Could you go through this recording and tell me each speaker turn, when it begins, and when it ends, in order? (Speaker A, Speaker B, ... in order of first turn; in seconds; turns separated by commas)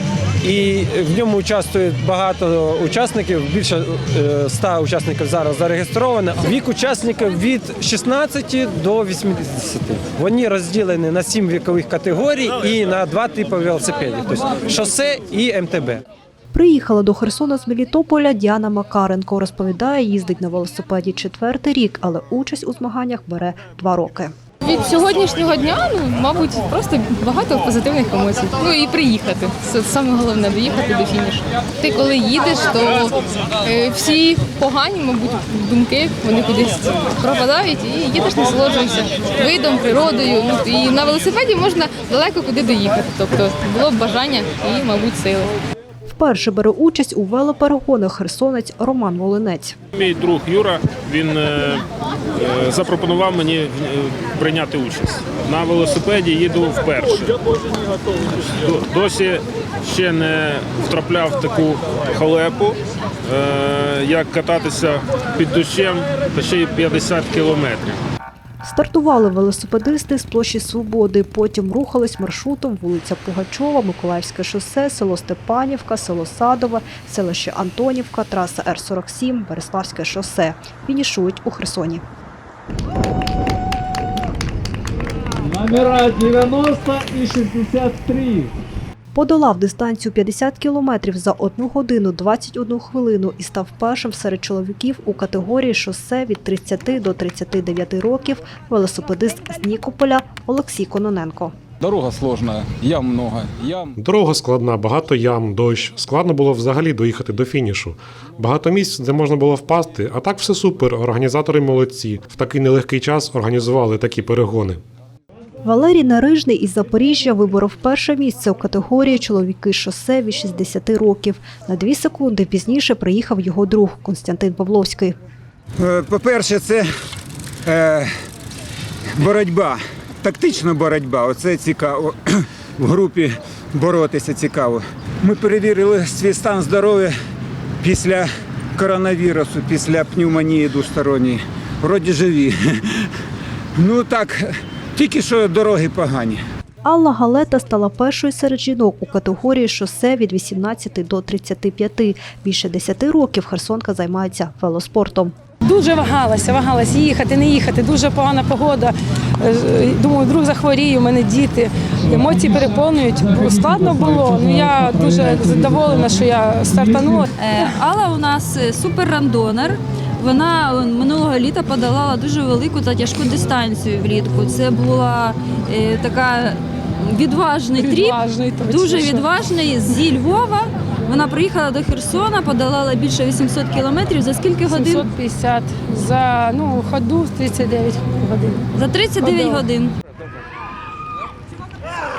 Speaker A: 0.4-16.0, Speaker B: 16.5-24.3, Speaker C: 24.6-45.5, Speaker B: 46.0-49.7, Speaker D: 49.9-57.3, Speaker D: 58.3-68.0, Speaker B: 68.6-82.0, Speaker E: 85.4-88.5, Speaker B: 89.1-101.5, Speaker F: 101.8-103.9, Speaker G: 104.0-114.8, Speaker B: 115.6-125.1, Speaker H: 125.8-126.9, Speaker H: 127.7-128.1, Speaker H: 129.2-137.1, Speaker H: 137.8-143.1, Speaker H: 143.8-146.4, Speaker B: 146.8-155.3, Speaker I: 155.6-167.3, Speaker E: 162.0-167.3, Speaker J: 167.4-185.1, Speaker I: 177.8-179.3, Speaker I: 184.7-188.7, Speaker J: 188.8-189.9, Speaker I: 189.2-189.6